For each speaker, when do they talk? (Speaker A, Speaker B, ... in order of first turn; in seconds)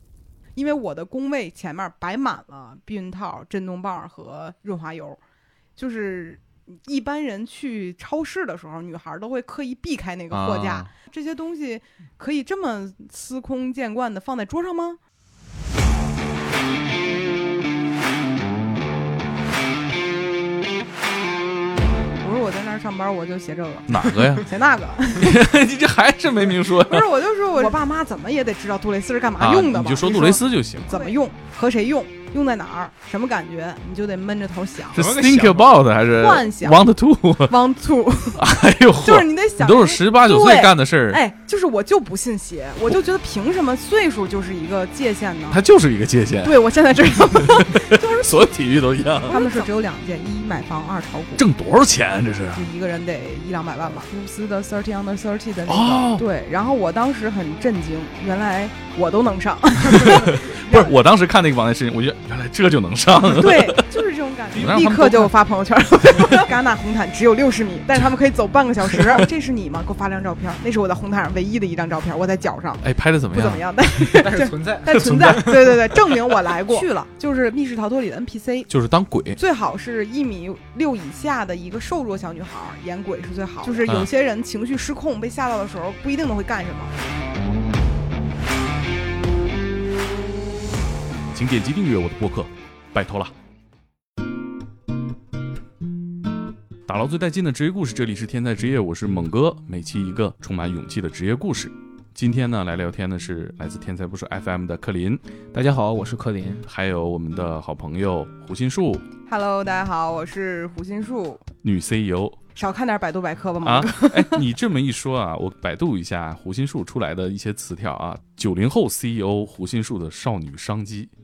Speaker A: 0.6-5.2, 5.8-15.0, 22.2-25.4, 26.8-35.0, 36.1-36.8, 37.5-38.4, 39.0-45.6, 46.4-48.5, 49.3-51.5, 52.5-60.9, 63.3-78.7, 79.4-86.9, 109.3-111.5, 112.5-114.5
Speaker B: 10.3-10.9, 23.9-24.5, 25.2-27.1, 29.4-31.0, 34.9-37.6, 38.4-41.2, 45.5-49.4, 51.4-52.6, 55.7-56.2, 59.9-64.0, 64.5-65.3, 66.1-66.4, 72.8-73.7, 74.9-75.8, 78.7-79.4, 83.8-84.1, 91.3-93.3, 96.9-105.2, 106.7-109.0, 111.6-112.4, 113.6-121.1
Speaker C: 35.0-35.9, 74.1-75.8, 105.5-106.7